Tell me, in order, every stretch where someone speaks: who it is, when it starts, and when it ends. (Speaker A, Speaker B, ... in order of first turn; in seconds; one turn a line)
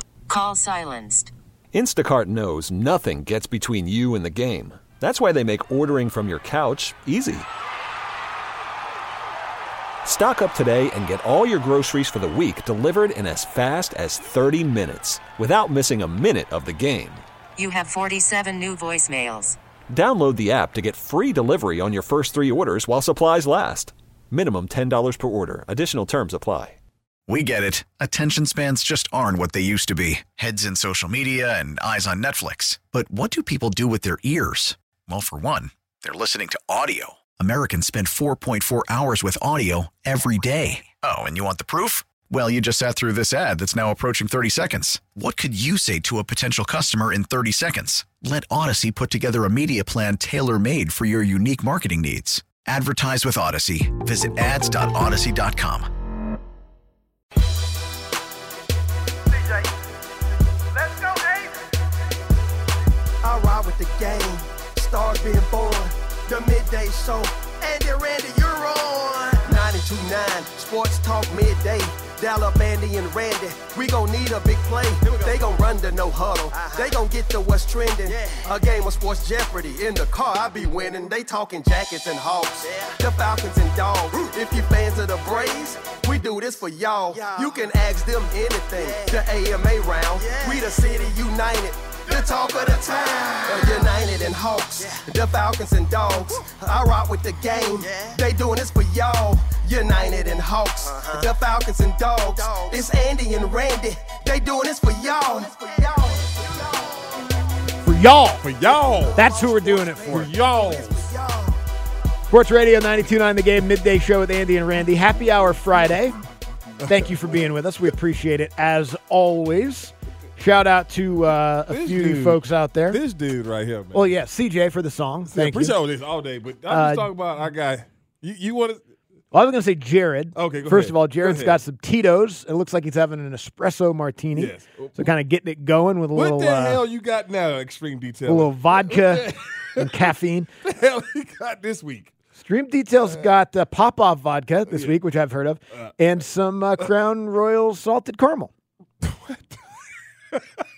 Speaker A: 0.3-1.3
Speaker B: 1.7-7.5
Speaker B: 10.0-17.2
Speaker A: 17.6-19.6
Speaker B: 19.9-26.8
Speaker C: 27.3-55.9
Speaker D: 60.8-61.5
Speaker D: 63.2-107.3
Speaker E: 107.8-108.4
Speaker F: 108.4-109.2
Speaker D: 108.9-111.6
Speaker E: 109.2-110.3
Speaker F: 110.0-111.1
Speaker E: 112.3-116.2
Speaker F: 116.8-117.5
Speaker E: 116.9-123.0
Speaker F: 121.7-124.2
Speaker E: 123.9-125.8
Speaker F: 125.3-128.8
Speaker E: 126.7-127.1
Speaker E: 129.3-136.8
Speaker F: 130.3-131.6
Speaker F: 134.3-135.1
Speaker F: 136.1-140.1
Speaker E: 138.3-140.5
Speaker F: 140.6-142.1
Speaker E: 142.4-148.5
Speaker F: 144.7-145.0
Speaker F: 149.0-149.6
Speaker F: 150.3-150.6